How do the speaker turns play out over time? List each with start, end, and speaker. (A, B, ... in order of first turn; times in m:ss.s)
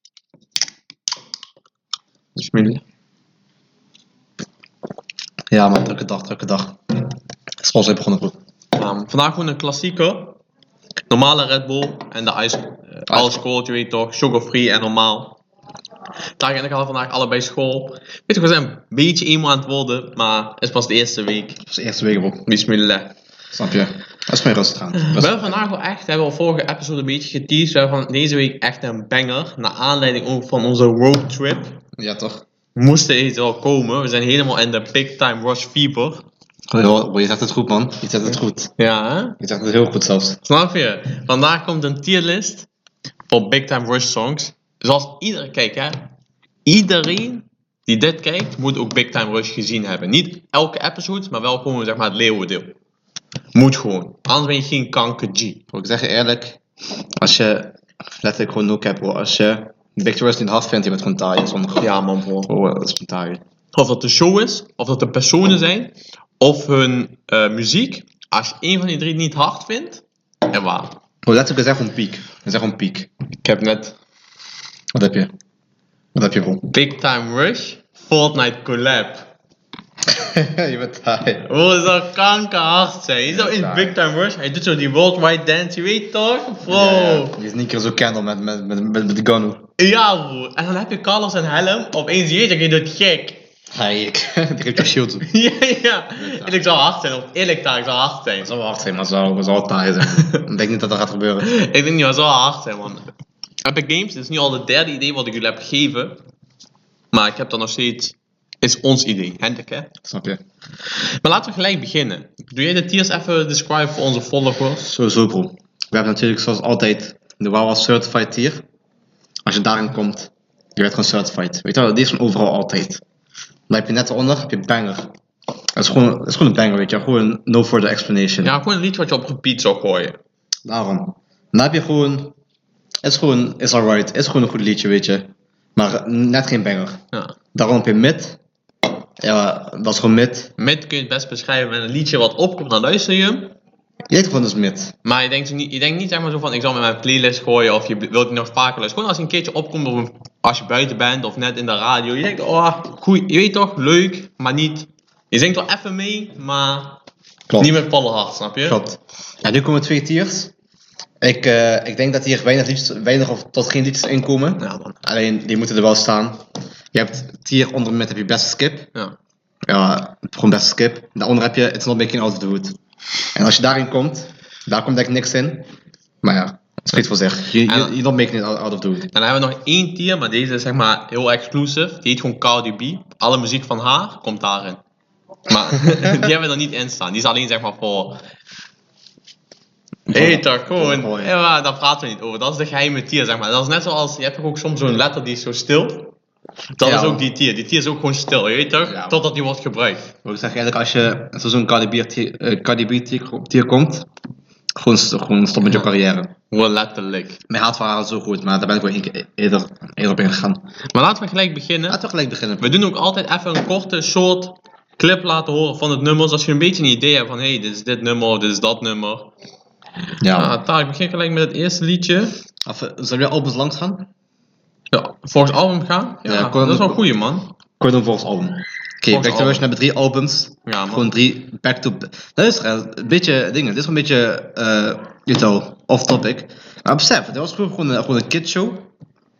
0:02.4-0:02.8 A
0:05.5-0:06.8 B
0:07.6-0:08.4 B
0:08.8-0:10.4 A
0:11.1-0:15.4 A
0:13.1-0:13.4 B
0:16.4-0:21.6 A
0:21.7-0:22.4 B
0:22.5-0:23.1 A
0:23.5-0:25.5 B
0:25.0-0:31.8 A
0:32.0-0:32.4 B
0:32.8-0:36.3 A
0:36.7-0:38.7 B
0:38.8-0:39.4 A
0:39.4-0:40.4 B
0:40.4-0:42.7 A
0:43.3-0:46.1 A
0:46.6-0:52.8 A
0:53.5-0:55.6 A
0:55.7-0:56.6 B
0:57.2-1:03.4 B
1:01.8-1:02.5 A
1:03.7-1:11.0 A
1:11.2-1:13.1 B
1:13.4-1:14.0 A
1:14.9-1:15.3 B
1:16.2-1:16.7 B
1:16.7-1:19.3 A
1:20.1-1:21.5 B
1:21.5-1:27.4 A
1:23.3-1:24.0 B
1:26.7-1:29.7 B
1:29.8-1:33.5 A
1:33.7-1:35.3 B
1:35.2-1:38.5 A
1:36.2-1:36.6 B
1:38.4-1:41.5 B
1:40.0-1:40.4 A
1:41.4-1:43.1 A
1:43.6-1:46.2 A
1:47.1-1:49.9 A
1:50.0-1:50.4 B
1:51.0-1:54.9 A
1:54.9-1:58.6 B
1:59.4-2:03.0 B
2:03.7-2:05.1 B
2:05.8-2:08.6 B
2:08.4-2:10.2 A
2:10.7-2:12.3 B
2:13.0-2:17.0 B
2:17.5-2:18.4 B
2:19.2-2:20.5 B
2:20.6-2:23.6 A
2:24.1-2:24.9 B
2:25.0-2:37.0 A
2:37.5-2:37.8 B
2:37.6-2:38.8 A
2:38.6-2:40.5 B
2:41.2-2:48.9 B
2:44.6-2:45.0 A
2:49.7-2:52.8 B
2:53.4-2:55.7 B
2:56.2-2:59.1 B
2:57.7-2:58.0 A
2:59.1-3:04.8 A
3:05.5-3:08.2 A
3:10.1-3:11.3 B
3:10.1-3:16.2 A
3:16.8-3:20.1 A
3:16.8-3:17.2 B
3:18.8-3:19.3 B
3:20.2-3:24.1 B
3:24.8-3:26.3 B
3:26.5-3:27.4 A
3:27.5-3:30.7 B
3:30.9-3:32.0 A
3:31.9-3:32.8 B
3:32.6-3:39.3 A
3:40.2-3:40.6 B
3:40.3-3:42.4 A
3:42.6-3:44.1 B
3:44.9-3:47.5 A
3:46.2-3:47.0 B
3:47.8-3:58.9 B
3:49.1-3:49.6 A
3:50.7-3:51.1 A